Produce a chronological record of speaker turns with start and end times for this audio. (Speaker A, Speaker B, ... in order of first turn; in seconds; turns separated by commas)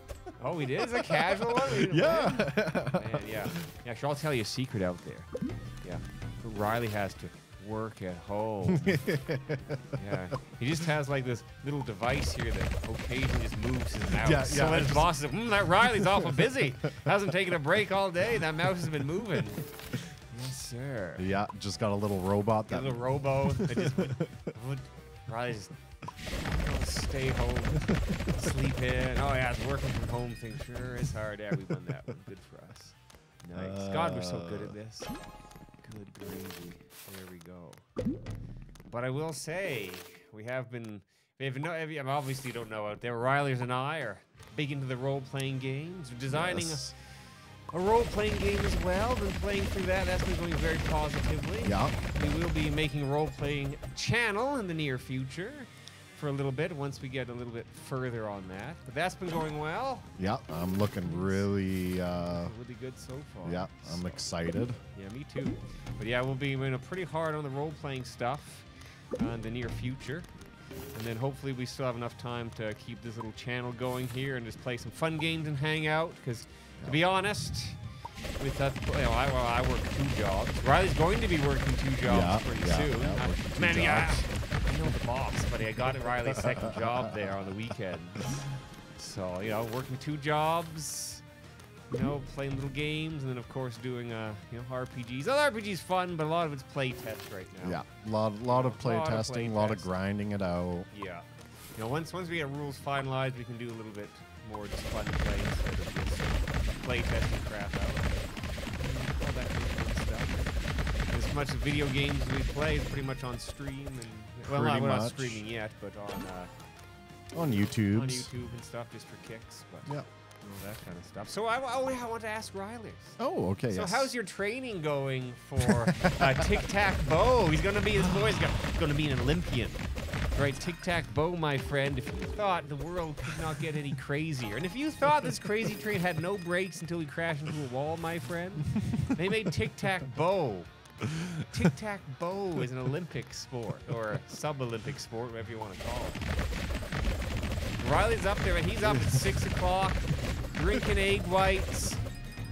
Speaker A: 0.4-5.3, Speaker B: 0.8-3.6, Speaker A: 5.8-9.0, Speaker B: 8.7-10.0, Speaker A: 9.9-19.6, Speaker B: 14.1-15.1, Speaker B: 15.8-16.7, Speaker A: 20.3-21.4, Speaker B: 21.2-24.5, Speaker A: 22.7-25.7, Speaker A: 26.3-35.1, Speaker B: 33.5-34.8, Speaker A: 35.8-37.9, Speaker A: 38.9-60.1, Speaker B: 46.3-47.0, Speaker B: 51.6-52.5, Speaker B: 60.2-62.5, Speaker A: 61.0-61.5, Speaker A: 62.1-64.3, Speaker B: 63.4-64.8, Speaker A: 64.9-70.3, Speaker A: 70.9-77.9, Speaker A: 78.4-88.4, Speaker B: 82.0-84.3, Speaker B: 86.1-87.5, Speaker A: 89.0-91.2, Speaker A: 91.9-97.8, Speaker B: 97.6-100.9, Speaker A: 98.5-99.9, Speaker A: 100.9-110.6, Speaker A: 111.1-116.5, Speaker B: 114.5-115.4, Speaker B: 117.3-118.3, Speaker A: 117.3-129.8, Speaker B: 123.2-124.1, Speaker B: 125.6-126.7, Speaker B: 128.0-128.6, Speaker A: 130.3-140.7, Speaker B: 141.0-141.7, Speaker A: 141.5-146.3, Speaker A: 147.8-152.0, Speaker B: 148.8-149.6